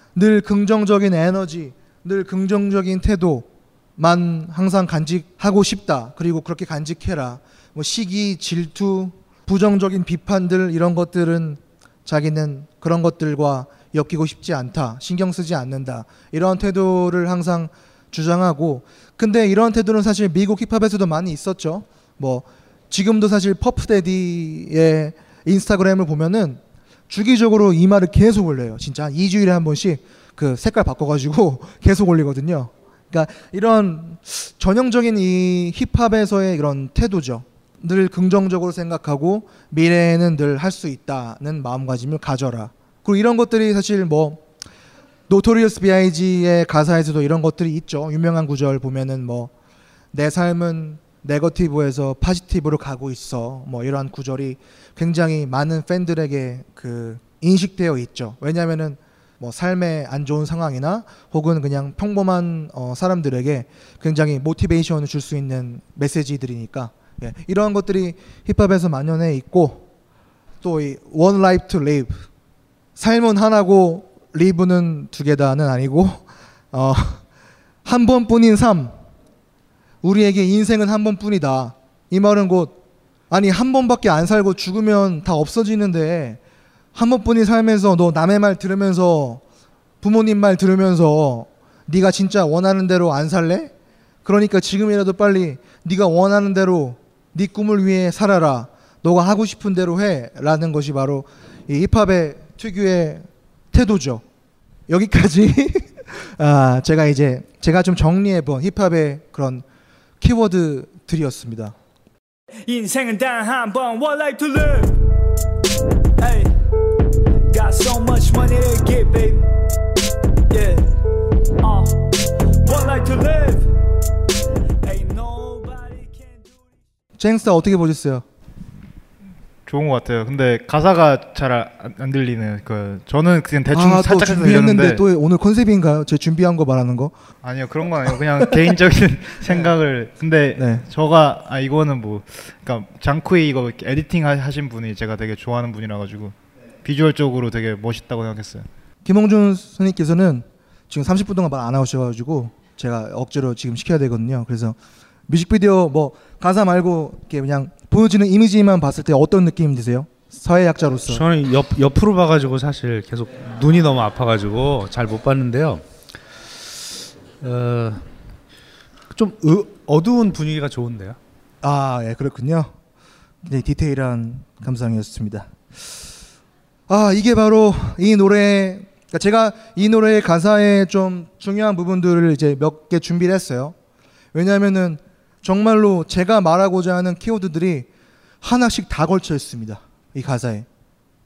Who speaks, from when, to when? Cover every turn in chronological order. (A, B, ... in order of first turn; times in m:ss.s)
0:00.2-0:44.4 A
0:45.3-0:49.5 A
0:50.1-1:09.9 A
1:10.6-1:12.2 A
1:13.0-1:17.2 A
1:17.8-1:19.0 A
1:20.0-1:22.8 A
1:23.3-1:26.4 A
1:26.9-1:29.4 A
1:30.0-1:33.7 A
1:34.2-1:44.2 A
1:44.9-1:49.6 A
1:50.2-1:51.8 A
1:52.7-1:55.0 B
1:56.2-1:56.5 B
1:57.5-1:59.4 B
2:00.5-2:00.8 B
2:01.6-2:02.0 B
2:02.6-2:03.7 B
2:04.8-2:06.6 B
2:07.2-2:08.2 A
2:09.7-2:15.0 C
2:13.7-2:17.2 A
2:17.4-2:28.7 C
2:18.4-2:18.7 A
2:19.4-2:19.7 A
2:20.6-2:20.8 A
2:29.0-2:34.8 A
2:35.3-2:41.2 A
2:41.1-2:45.8 D
2:47.4-2:48.0 D
2:49.1-2:51.2 D
2:51.6-2:52.7 A
2:53.4-2:55.5 A
2:56.9-3:03.8 A
3:04.3-3:07.9 A
3:08.4-3:10.7 A